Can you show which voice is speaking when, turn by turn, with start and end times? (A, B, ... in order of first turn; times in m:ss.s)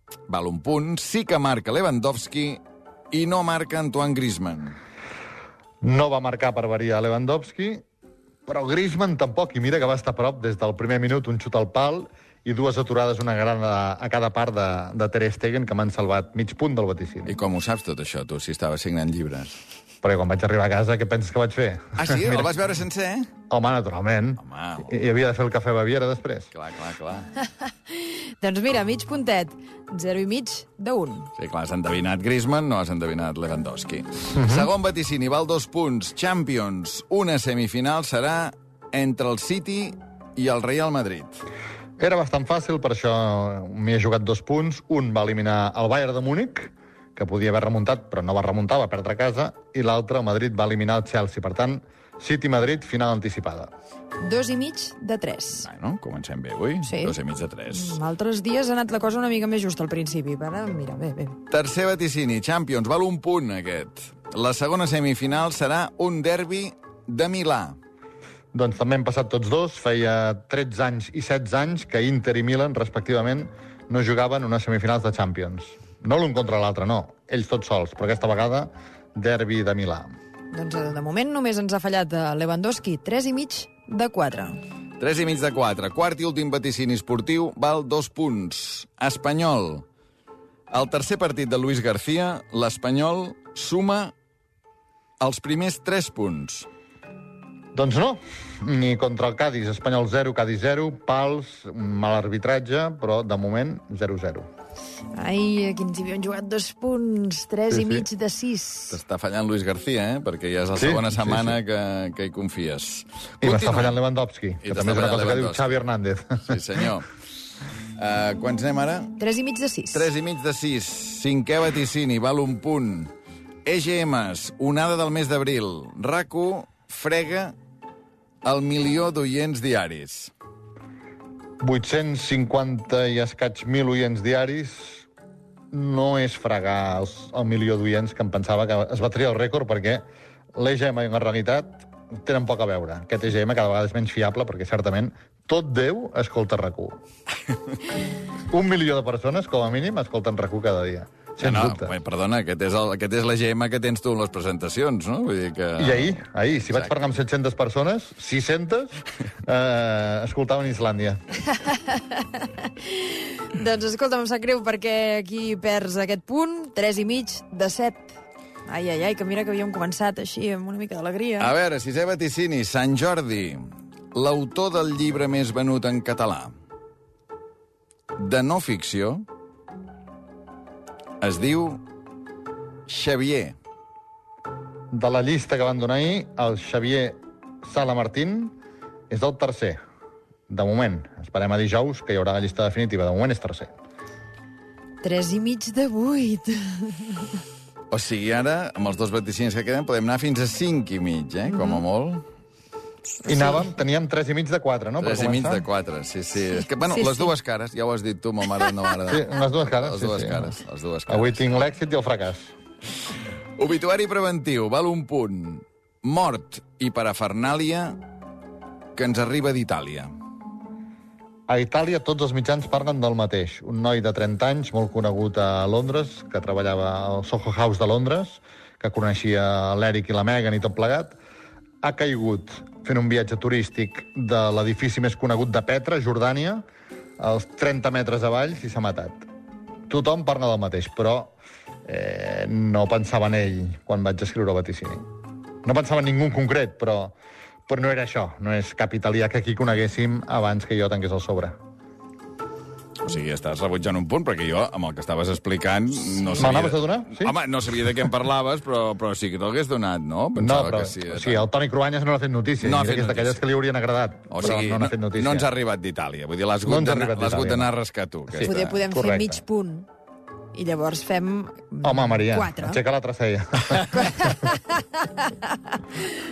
0:00.3-0:02.6 A
0:03.1-0:04.8 A
0:05.8-0:07.8 B
0:08.5-0:17.4 B
0:17.3-0:19.6 A
0:20.0-0:22.5 B
0:22.0-0:23.3 A
0:23.5-0:26.5 B
0:24.4-0:24.9 A
0:26.5-0:27.3 A
0:28.0-0:31.3 C
0:31.4-0:41.4 A
0:34.4-0:34.7 B
0:42.0-0:53.7 B
0:54.2-0:55.7 C
0:55.6-0:58.0 A
0:56.8-0:57.2 C
0:57.7-1:01.4 C
1:01.5-1:07.8 A
1:08.5-1:20.1 B
1:20.5-1:24.6 C
1:25.0-1:29.8 A
1:30.7-1:34.1 A
1:35.2-1:36.7 A
1:37.8-1:44.5 B
1:45.1-1:49.0 C
1:47.7-1:48.1 B
1:48.9-1:54.0 A
1:50.8-1:51.6 B
1:53.4-1:56.6 B
1:54.6-1:55.8 A
1:56.4-1:57.1 A
1:58.0-1:59.2 A
1:59.2-2:00.1 C
1:59.9-2:03.1 A
2:03.7-2:07.6 A
2:08.4-2:10.3 A
2:11.6-2:15.0 B
2:15.7-2:20.0 B
2:20.6-2:27.0 B
2:28.5-2:31.9 B
2:31.4-2:37.1 A
2:35.8-2:41.2 B
2:41.7-2:48.1 C
2:48.6-2:51.5 C
2:51.4-2:53.6 A
2:54.1-2:56.5 A
2:58.2-2:59.2 A
3:01.2-3:01.8 A
3:02.9-3:03.6 A
3:04.9-3:08.5 B
3:09.1-3:09.8 B
3:10.5-3:13.7 B
3:15.0-3:17.4 C
3:17.9-3:22.2 A
3:21.5-3:21.8 C
3:23.2-3:25.6 B
3:23.3-3:23.6 C
3:25.0-3:31.4 A
3:26.8-3:27.3 C
3:29.1-3:30.5 B
3:31.1-3:32.5 B
3:33.6-3:38.0 A
3:39.0-3:40.1 A
3:41.5-3:51.2 B
3:51.8-3:56.6 B
3:57.2-3:59.2 B
3:59.9-4:01.3 B
4:01.9-4:05.0 B
4:05.6-4:07.2 B
4:07.7-4:11.6 B
4:13.0-4:21.5 A
4:16.4-4:17.3 B
4:20.4-4:25.5 B
4:22.6-4:23.4 A
4:24.3-4:28.8 A
4:26.6-4:27.7 B
4:28.3-4:29.4 B
4:28.4-4:29.9 C
4:30.5-4:32.8 C
4:31.8-4:33.9 B
4:33.9-4:35.8 C